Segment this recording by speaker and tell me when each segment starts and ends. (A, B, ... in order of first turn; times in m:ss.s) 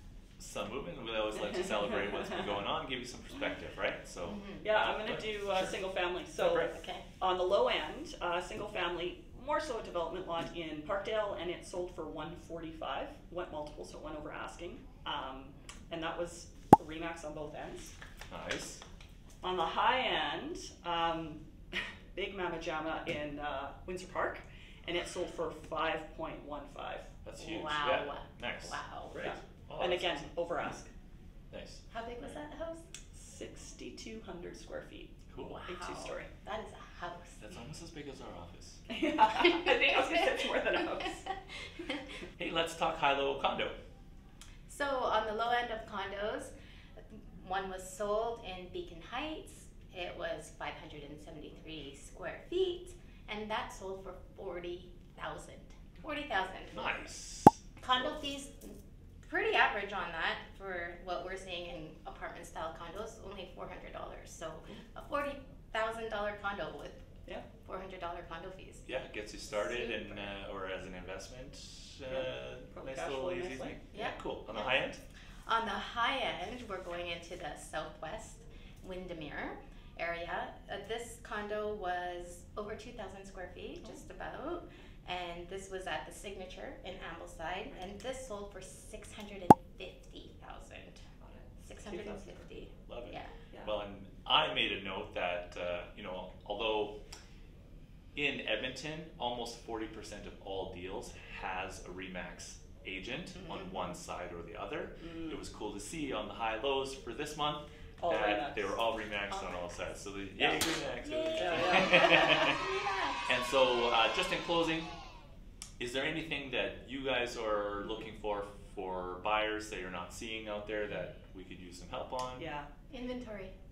0:00.4-0:06.7 A
0:04.2-0:04.6 B
0:04.6-0:17.9 C
0:06.6-0:07.0 B
0:18.3-0:18.8 A
0:19.4-0:27.1 C
0:27.2-0:30.3 A
0:27.4-0:29.2 B
0:29.2-0:30.9 C
0:31.5-0:31.8 A
0:31.9-0:32.8 B
0:33.1-0:36.3 C
0:35.3-0:35.7 A
0:35.7-0:37.4 B
0:37.4-0:38.8 A
0:38.9-0:41.3 C
0:39.9-0:40.2 B
0:42.4-0:43.8 A
0:44.7-0:46.5 B
0:47.1-0:56.9 B
0:56.7-0:57.6 A
0:57.8-1:07.0 B
1:07.6-1:08.8 B
1:08.8-1:15.0 A
1:09.5-1:10.3 B
1:12.1-1:13.8 C
1:13.9-1:14.7 B
1:15.4-1:31.0 B
1:31.2-1:32.3 C
1:31.6-1:33.3 B
1:32.9-1:37.0 A
1:38.1-1:52.6 A
1:45.0-1:45.4 C
1:48.0-1:48.8 C
1:51.0-1:53.3 B
1:51.3-1:52.5 C
1:53.2-1:54.9 A
1:55.8-2:02.5 A
2:02.4-2:02.7 C
2:02.9-2:03.5 B